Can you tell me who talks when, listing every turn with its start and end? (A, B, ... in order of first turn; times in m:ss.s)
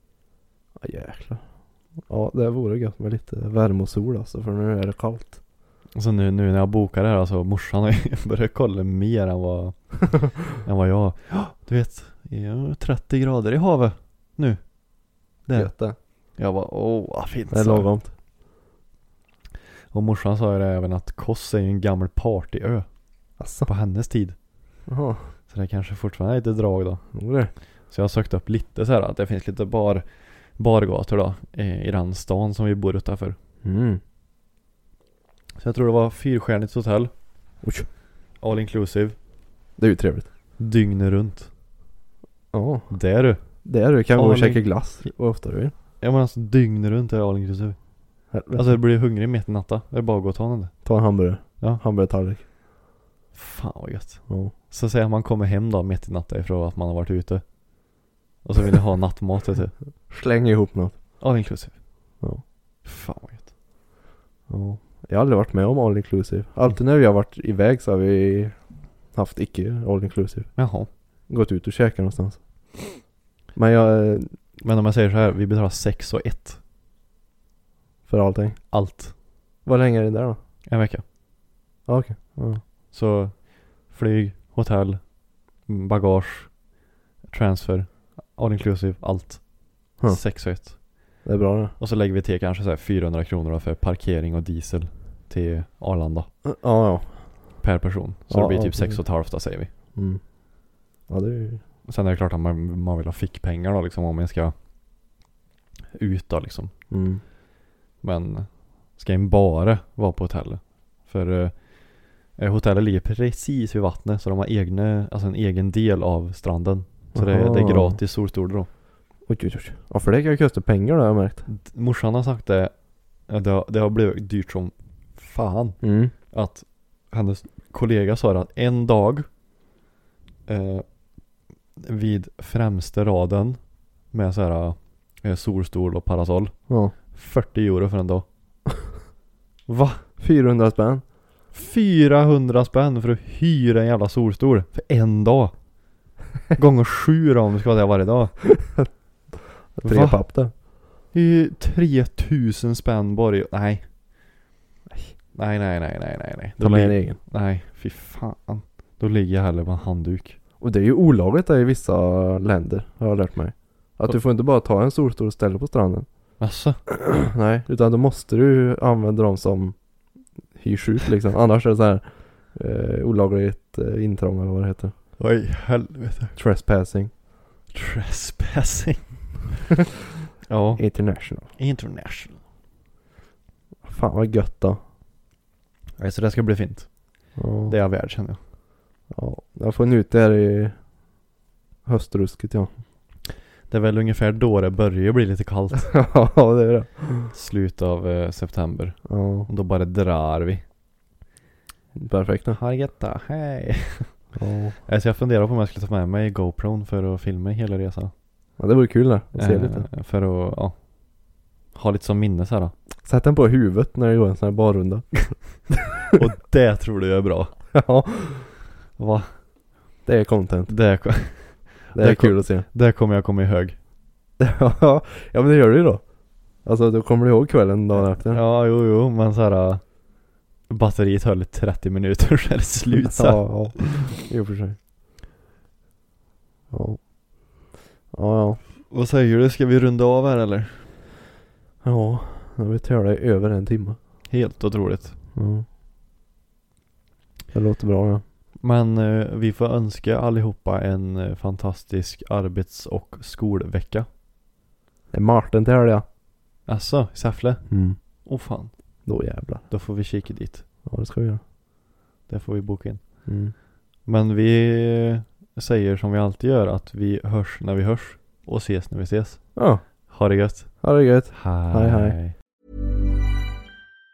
0:00.8-0:05.4 A
0:06.0-0:17.9 B
0:15.5-0:16.0 A
0:17.5-0:18.1 A
0:19.9-0:24.4 B
0:23.4-0:23.7 A
0:24.9-0:25.3 A
0:25.5-0:33.4 B
0:27.1-0:27.5 A
0:33.6-0:34.0 A
0:35.6-0:37.1 B
0:37.6-0:37.9 A
0:38.4-0:39.2 B
0:39.8-0:40.3 A
0:40.6-0:41.5 B
0:42.5-0:43.0 A
0:42.9-0:45.1 B
0:43.6-0:45.7 A
0:46.0-0:50.9 B
0:48.3-0:48.8 A
0:50.8-0:52.4 A
0:53.3-0:59.7 B
0:54.3-0:54.5 A
1:00.1-1:01.0 A
1:01.2-1:02.0 B
1:02.8-1:03.5 B
1:04.5-1:14.4 A
1:10.6-1:10.9 B
1:14.6-1:16.6 B
1:18.1-1:18.7 A
1:18.7-1:19.1 B
1:19.6-1:20.4 A
1:20.7-1:21.0 B
1:21.9-1:22.6 A
1:22.9-1:26.7 B
1:27.3-1:31.2 B
1:30.0-1:30.2 A
1:31.2-1:31.7 A
1:31.8-1:36.3 B
1:36.4-1:37.6 A
1:37.6-1:39.7 B
1:38.3-1:39.1 A
1:39.7-1:40.2 A
1:41.1-1:41.6 A
1:41.9-1:44.6 B
1:45.9-1:46.7 B
1:46.9-1:47.2 A
1:48.0-1:58.7 B
1:57.1-1:58.0 A
1:59.2-2:01.4 A
2:01.5-2:09.3 B
2:05.8-2:06.1 A
2:10.5-2:11.0 B
2:11.8-2:18.3 B
2:16.7-2:16.9 A
2:19.7-2:20.0 B
2:20.2-2:21.0 A
2:21.5-2:25.7 B
2:26.5-2:28.8 B
2:29.7-2:30.5 A
2:29.8-2:33.9 B
2:35.3-2:40.4 B
2:36.6-2:37.2 A
2:40.6-2:46.4 A
2:46.4-2:46.8 B
2:47.0-2:54.9 A
2:55.2-2:56.4 B
2:56.4-2:57.1 A
2:57.7-2:59.3 B
3:00.5-3:02.4 B
3:00.8-3:01.5 A
3:03.8-3:04.8 A
3:06.0-3:08.4 B
3:07.4-3:07.8 A
3:09.1-3:10.9 A
3:11.8-3:12.7 A
3:13.7-3:16.0 B
3:15.9-3:17.3 A
3:17.3-3:20.6 B
3:19.1-3:19.5 A
3:22.0-3:22.6 A
3:22.6-3:24.2 B
3:24.4-3:24.8 A
3:24.9-3:28.1 B
3:28.6-3:29.9 A
3:29.4-3:30.9 B
3:31.7-3:32.7 B
3:33.0-3:35.7 A
3:36.1-3:37.8 B
3:37.7-3:38.5 A
3:39.0-3:39.4 B
3:40.0-3:41.3 A
3:40.7-3:43.8 B
3:41.9-3:42.7 A
3:44.4-3:48.4 A
3:47.9-3:54.0 B
3:52.9-3:54.8 A
3:56.7-3:58.6 A
3:58.9-4:00.9 B
4:01.8-4:04.0 A
4:04.3-4:05.2 B
4:05.4-4:05.7 A
4:07.5-4:08.2 A
4:08.6-4:14.1 B
4:15.1-4:16.0 A
4:16.7-4:19.1 B
4:17.7-4:18.0 A
4:19.1-4:19.7 A
4:19.7-4:20.6 B
4:20.8-4:21.4 A
4:22.3-4:23.3 B
4:23.2-4:23.5 A
4:24.0-4:32.3 B
4:29.6-4:30.1 A
4:30.8-4:32.2 A